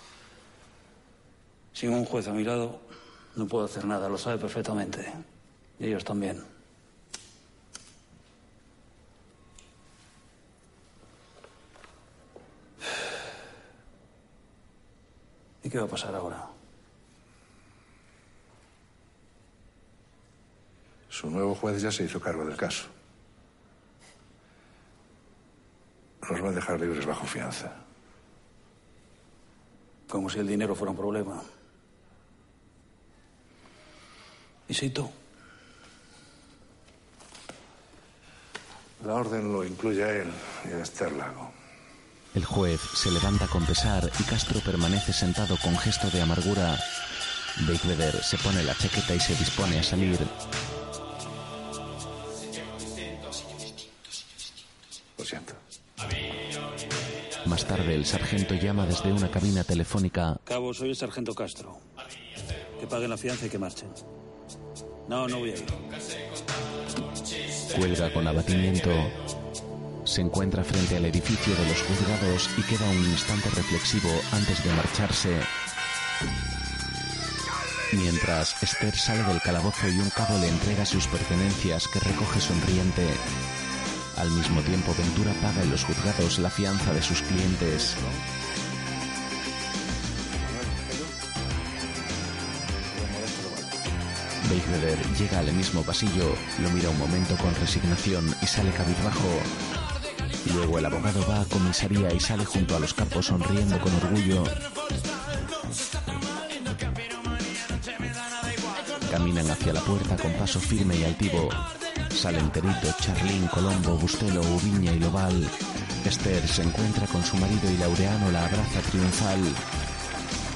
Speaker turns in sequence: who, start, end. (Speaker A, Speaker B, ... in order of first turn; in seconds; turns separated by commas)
Speaker A: 1.7-5.2, Speaker A: 5.8-6.4, Speaker A: 15.6-16.5, Speaker B: 21.1-22.9, Speaker B: 26.2-27.8, Speaker A: 30.1-31.4, Speaker A: 34.7-35.1, Speaker B: 39.0-41.5, Speaker C: 42.3-46.8, Speaker C: 47.6-50.3, Speaker B: 55.2-55.6, Speaker C: 57.4-60.4, Speaker A: 60.5-61.8, Speaker A: 62.8-64.0, Speaker A: 65.1-65.8, Speaker C: 67.7-69.1, Speaker C: 70.0-75.5, Speaker C: 77.9-83.2, Speaker C: 84.1-88.0, Speaker B: 92.9-93.2, Speaker C: 94.4-99.5, Speaker C: 100.4-104.5, Speaker C: 109.0-119.6